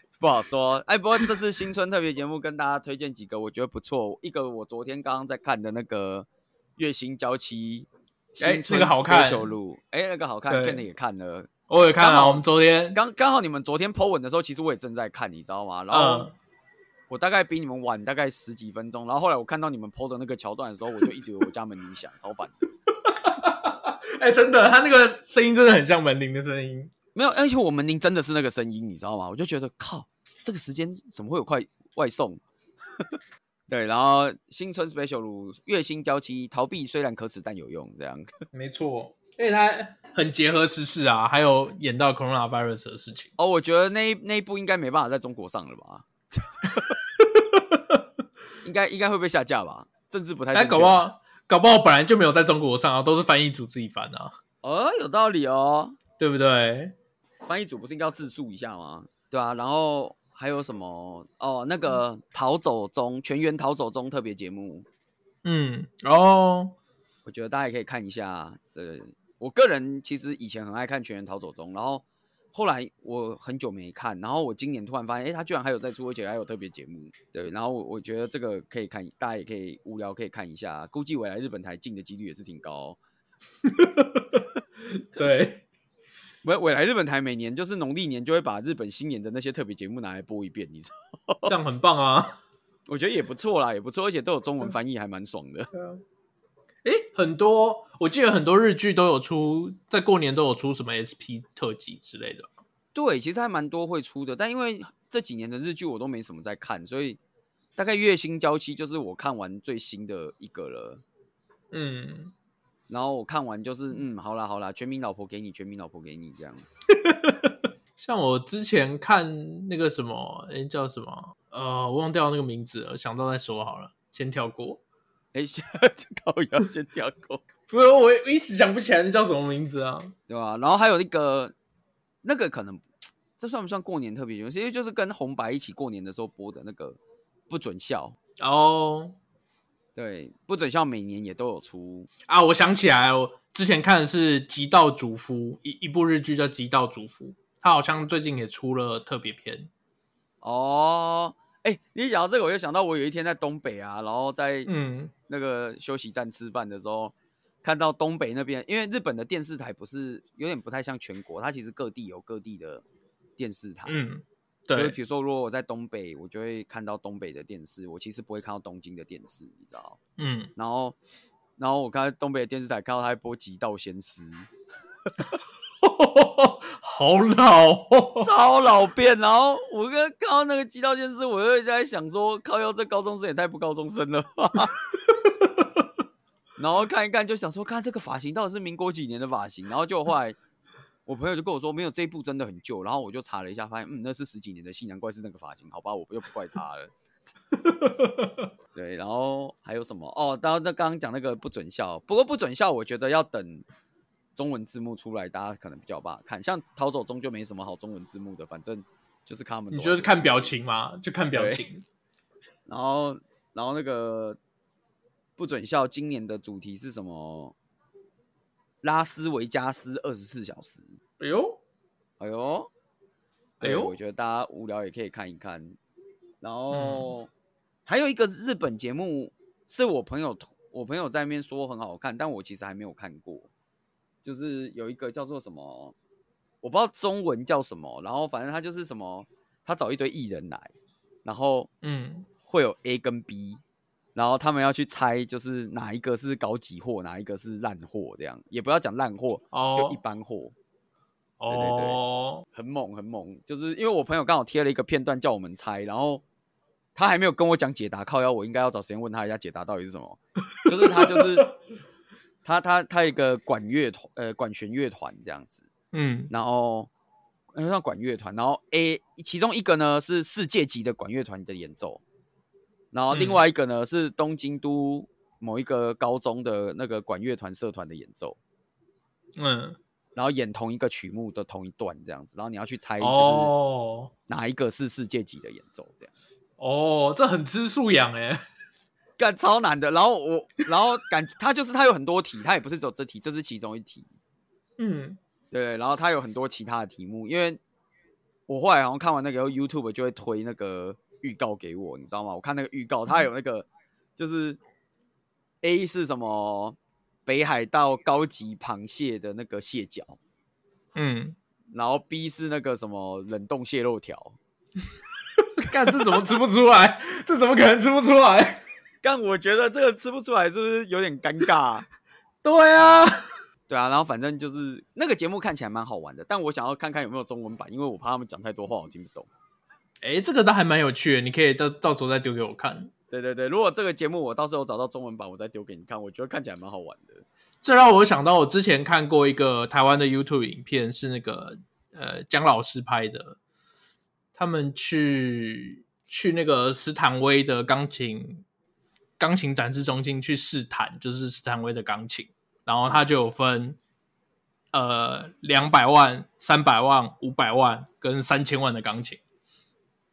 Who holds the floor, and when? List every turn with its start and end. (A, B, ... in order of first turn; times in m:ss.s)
0:00.2-0:16.3 A
0:08.4-0:09.5 B
0:10.5-0:10.8 B
0:11.7-0:13.0 B
0:15.9-0:16.3 B
0:17.1-0:22.6 A
0:23.0-0:26.9 B
0:27.2-0:32.4 A
0:33.7-0:38.4 A
0:38.5-0:43.3 B
0:43.4-0:47.0 A
0:46.8-0:48.0 B
0:48.6-0:51.0 A
0:50.5-0:54.3 B
0:54.6-0:56.0 A
0:56.2-0:57.0 B
0:57.4-1:04.9 A
1:05.4-1:06.8 B
1:07.3-1:23.0 A
1:23.6-1:25.6 B
1:26.4-1:31.6 A
1:31.5-1:32.4 B
1:32.9-1:35.7 A
1:35.7-1:36.0 B
1:36.8-1:42.5 B
1:42.9-1:47.2 A
1:47.8-1:51.0 A
1:51.7-1:52.3 B
1:52.9-1:56.6 A
1:57.0-2:04.8 B
2:05.3-2:07.4 A
2:07.7-2:10.1 B
2:10.3-2:11.5 A
2:12.2-2:17.0 A
2:17.5-2:18.2 A
2:18.4-2:19.2 B
2:20.0-2:22.1 A
2:22.3-2:29.7 B
2:30.4-2:34.7 A
2:34.7-2:35.1 B
2:35.3-2:42.8 A
2:43.4-2:44.0 A
2:43.9-2:45.0 B
2:44.7-2:50.0 A
2:50.2-2:50.5 B
2:50.6-2:51.0 A
2:51.6-2:54.5 A
2:55.8-2:58.3 B
2:58.2-3:04.7 A
3:05.2-3:05.7 B
3:06.6-3:10.4 A
3:11.1-3:16.9 A
3:17.7-3:18.4 B
3:18.7-3:23.6 A
3:24.4-3:30.5 A
3:29.7-3:31.8 B
3:31.3-3:31.6 A
3:32.7-3:34.4 A
3:35.4-3:37.6 A
3:38.8-3:40.9 A
3:41.2-3:41.6 B
3:42.2-3:42.7 A
3:43.6-3:45.8 A
3:43.6-3:43.9 B
3:46.4-3:47.3 A
3:46.7-3:47.1 B
3:47.9-3:53.5 A
3:54.2-3:56.0 A
3:56.6-4:00.7 A
4:01.2-4:01.7 A
4:01.8-4:02.3 B
4:02.4-4:03.6 A
4:04.2-4:10.6 A
4:09.5-4:10.0 B
4:11.4-4:12.4 B
4:11.5-4:12.0 A
4:12.5-4:16.2 A
4:17.0-4:21.5 A
4:20.5-4:21.5 B
4:22.4-4:25.7 A
4:25.9-4:26.3 B
4:26.3-4:26.9 A
4:27.5-4:32.0 A
4:32.9-4:38.4 A
4:33.1-4:33.4 B
4:39.4-4:39.8 B
4:40.2-4:43.5 A
4:43.0-4:44.1 B
4:44.3-4:46.1 A
4:46.6-4:48.4 B
4:49.2-4:54.1 A
4:54.8-4:55.2 B
4:55.5-4:57.6 A
4:58.5-5:04.6 A
5:05.6-5:10.2 A
5:11.0-5:11.4 B
5:11.7-5:14.4 A
5:15.6-5:18.6 B
5:15.8-5:16.2 A
5:19.0-5:21.9 A
5:22.4-5:23.2 B
5:23.7-5:29.3 A
5:30.0-5:32.9 B
5:33.1-5:37.2 A
5:37.6-5:43.4 B
5:44.4-5:48.4 B
5:49.2-5:53.8 B
5:54.7-5:59.2 B